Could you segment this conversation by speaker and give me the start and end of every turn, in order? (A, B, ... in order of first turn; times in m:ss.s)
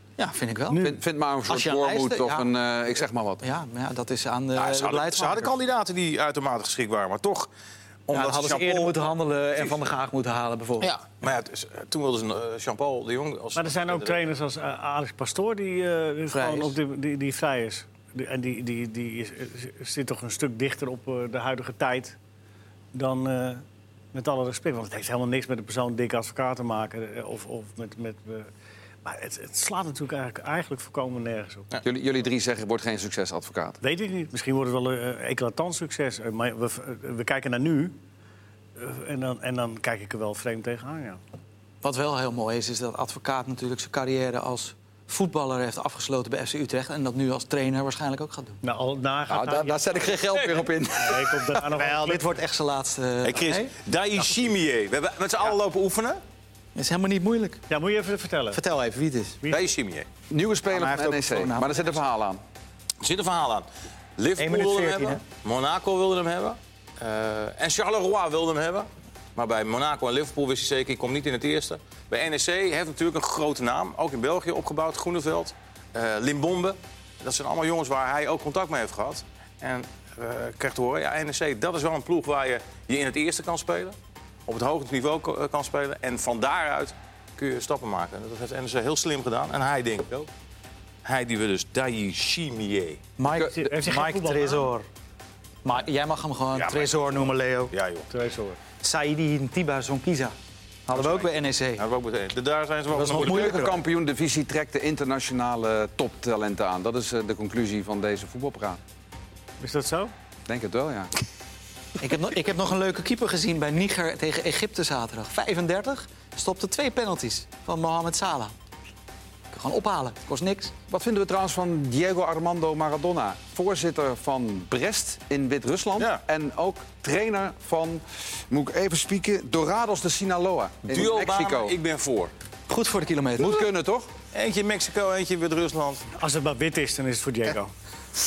0:00.2-0:00.9 A
0:00.7-0:01.0 B
0:00.7-0:03.4 C
0:01.5-0:02.5 A
0:03.4-0:05.5 A
0:04.6-0:07.5 D
0:08.1-0:09.8 D
0:08.1-0:11.0 A
0:10.8-0:14.2 D
0:13.6-0:22.2 B
0:16.3-0:16.8 A
0:22.9-0:28.5 B
0:29.0-0:31.7 B
0:31.8-0:33.8 C
0:33.8-0:38.0 B
0:38.8-0:41.2 B
0:41.8-0:48.6 A
0:48.6-0:49.8 B
0:49.3-0:51.6 C
0:51.0-0:52.3 B
0:51.6-0:53.8 A
0:53.2-0:56.2 D
0:56.8-0:57.6 A
0:57.7-0:58.6 B
0:58.5-0:59.4 A
0:59.5-1:00.1 D
1:00.3-1:02.4 C
1:00.7-1:02.0 A
1:03.0-1:03.7 D
1:04.2-1:24.0 D
1:04.4-1:05.2 A
1:24.5-1:30.3 D
1:31.0-1:33.0 D
1:33.2-1:34.9 A
1:33.3-1:33.7 C
1:33.4-1:34.7 B
1:35.6-1:37.7 A
1:36.5-1:38.1 D
1:38.1-1:38.6 B
1:38.8-1:40.4 A
1:40.9-1:41.8 A
1:40.9-1:43.8 D
1:42.9-1:43.8 A
1:43.2-1:48.8 C
1:49.6-1:50.1 B
1:50.5-1:51.1 C
1:52.0-1:58.5 A
1:59.5-2:00.7 A
2:00.9-2:11.7 C
2:10.9-2:12.3 D
2:12.7-2:13.6 A
2:13.4-2:14.1 C
2:14.3-2:16.1 D
2:16.2-2:17.7 B